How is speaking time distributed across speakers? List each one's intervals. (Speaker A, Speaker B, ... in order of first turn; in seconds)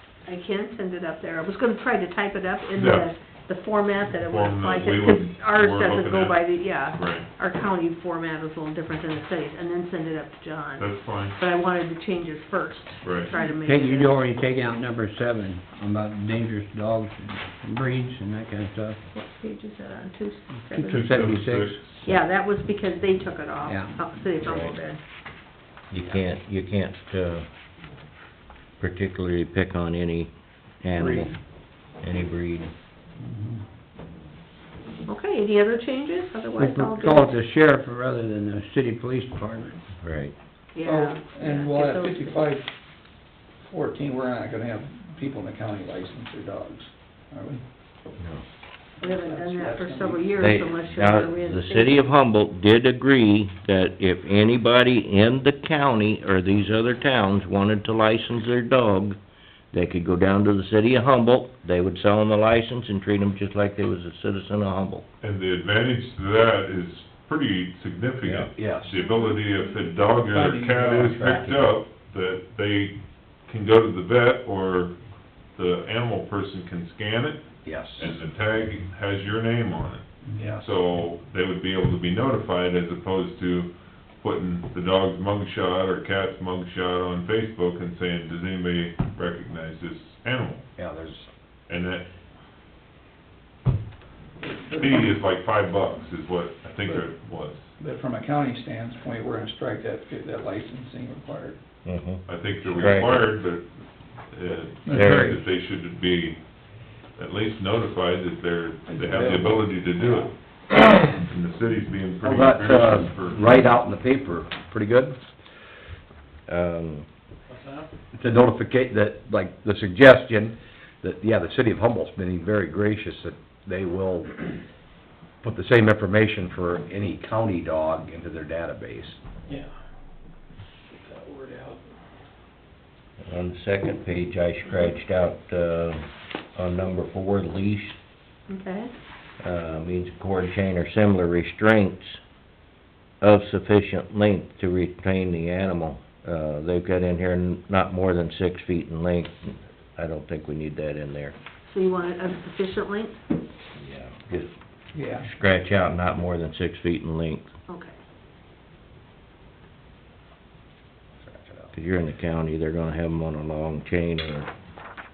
Speaker A: 0.3-14.2, 19.1-21.0, 22.1-25.0, 35.1-37.4, 40.8-42.4, 49.0-52.1, 138.5-138.9, 151.7-153.2, 157.7-157.9
Speaker B: 2.8-3.1, 4.1-7.3, 10.8-11.4, 13.0-13.3, 20.9-22.0, 65.2-75.0, 75.5-90.7, 91.7-92.1, 94.7-97.7, 102.3-106.4, 107.2-110.3, 111.0-113.5
Speaker C: 13.3-19.0, 20.7-22.0, 23.6-24.0, 36.6-39.8
Speaker D: 24.4-24.8, 25.9-27.5, 28.8-31.4, 32.0-32.7, 40.0-40.3, 50.4-59.2, 59.7-65.0, 101.8-103.2, 104.9-105.4, 116.5-117.1, 133.2-138.0, 139.4-142.2, 143.2-151.3, 153.8-154.5, 155.2-157.5, 161.7-164.5
Speaker E: 31.0-31.3, 40.8-42.7, 43.6-47.6, 49.0-50.7, 70.2-71.5, 80.4-80.7, 94.5-95.0, 97.8-101.6, 108.9-110.3, 131.2-131.8, 154.9-155.3
Speaker F: 68.4-69.0, 77.6-78.2, 90.8-91.3, 112.2-115.2, 118.1-124.5, 125.4-129.2, 161.2-161.7